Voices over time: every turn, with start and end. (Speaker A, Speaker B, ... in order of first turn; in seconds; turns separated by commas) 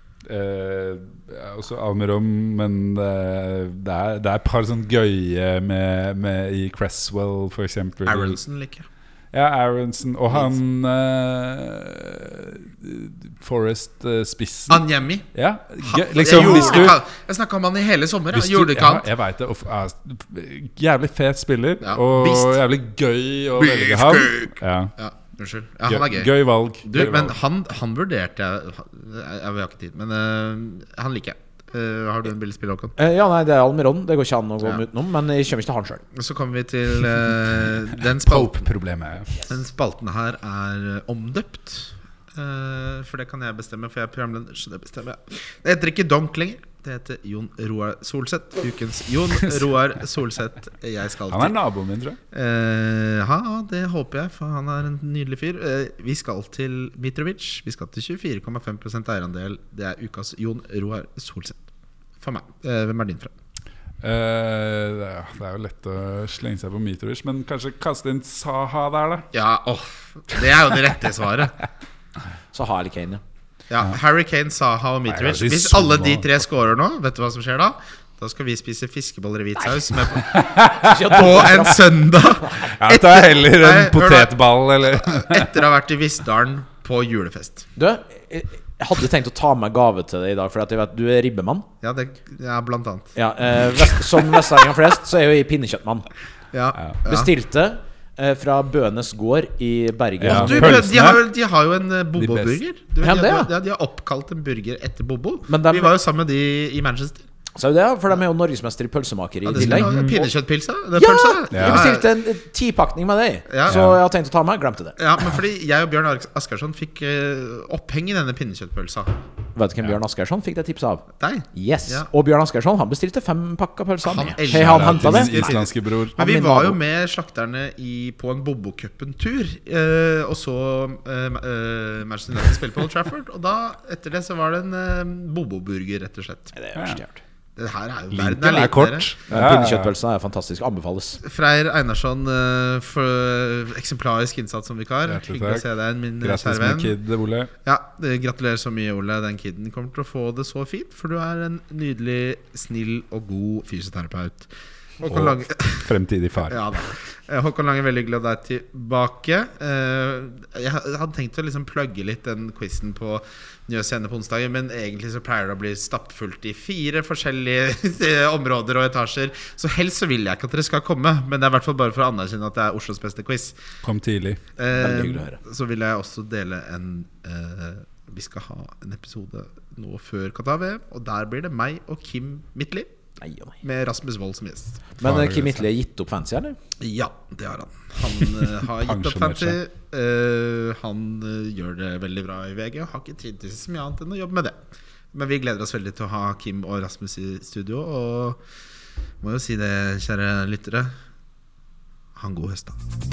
Speaker A: 0.2-8.4, Speaker B: 8.0-8.9, Speaker A: 9.3-14.8, Speaker B: 10.3-10.6, Speaker B: 14.7-15.3, Speaker A: 15.3-17.0, Speaker B: 15.8-19.1, Speaker C: 16.3-16.9, Speaker A: 18.3-24.9, Speaker B: 21.8-22.6, Speaker B: 23.6-26.3, Speaker A: 25.9-27.3, Speaker B: 26.8-33.0, Speaker C: 33.0-36.0, Speaker B: 36.1-38.7, Speaker A: 38.1-39.3, Speaker B: 39.4-51.5, Speaker A: 51.3-52.2, Speaker B: 52.3-61.6, Speaker B: 62.2-63.3, Speaker A: 64.0-69.3, Speaker B: 69.3-71.5, Speaker C: 72.5-73.2, Speaker B: 73.7-80.4, Speaker A: 75.0-76.3, Speaker A: 80.2-81.0, Speaker C: 80.8-81.9, Speaker B: 81.0-87.7, Speaker A: 82.6-85.5, Speaker C: 87.8-91.7, Speaker B: 91.8-93.1, Speaker C: 93.2-96.1, Speaker B: 93.7-94.3, Speaker B: 96.5-97.3, Speaker C: 97.0-100.9, Speaker A: 100.2-101.2, Speaker B: 100.3-107.2, Speaker A: 102.2-102.6, Speaker C: 103.0-103.5, Speaker C: 105.5-105.9, Speaker C: 107.5-110.2, Speaker B: 109.4-112.1, Speaker A: 109.5-110.3, Speaker C: 111.0-115.0, Speaker A: 111.5-111.8, Speaker B: 113.5-113.8, Speaker A: 113.7-114.0, Speaker B: 115.0-119.2, Speaker C: 119.5-125.6, Speaker B: 121.2-122.1, Speaker B: 124.0-136.5, Speaker A: 124.5-126.3, Speaker C: 126.2-126.8, Speaker C: 136.5-137.2, Speaker B: 137.6-139.1, Speaker A: 138.1-139.9, Speaker C: 139.3-141.2, Speaker B: 141.2-147.0, Speaker A: 145.1-145.6, Speaker A: 146.2-147.5, Speaker B: 147.6-155.9, Speaker A: 155.1-156.8, Speaker B: 156.4-173.6, Speaker A: 173.8-174.4, Speaker B: 174.6-182.9, Speaker C: 174.7-175.4, Speaker C: 183.2-183.5, Speaker B: 183.6-185.0, Speaker C: 185.0-186.6, Speaker A: 185.0-185.7, Speaker B: 186.8-198.4, Speaker A: 188.4-189.6, Speaker B: 199.2-200.9, Speaker B: 202.2-202.8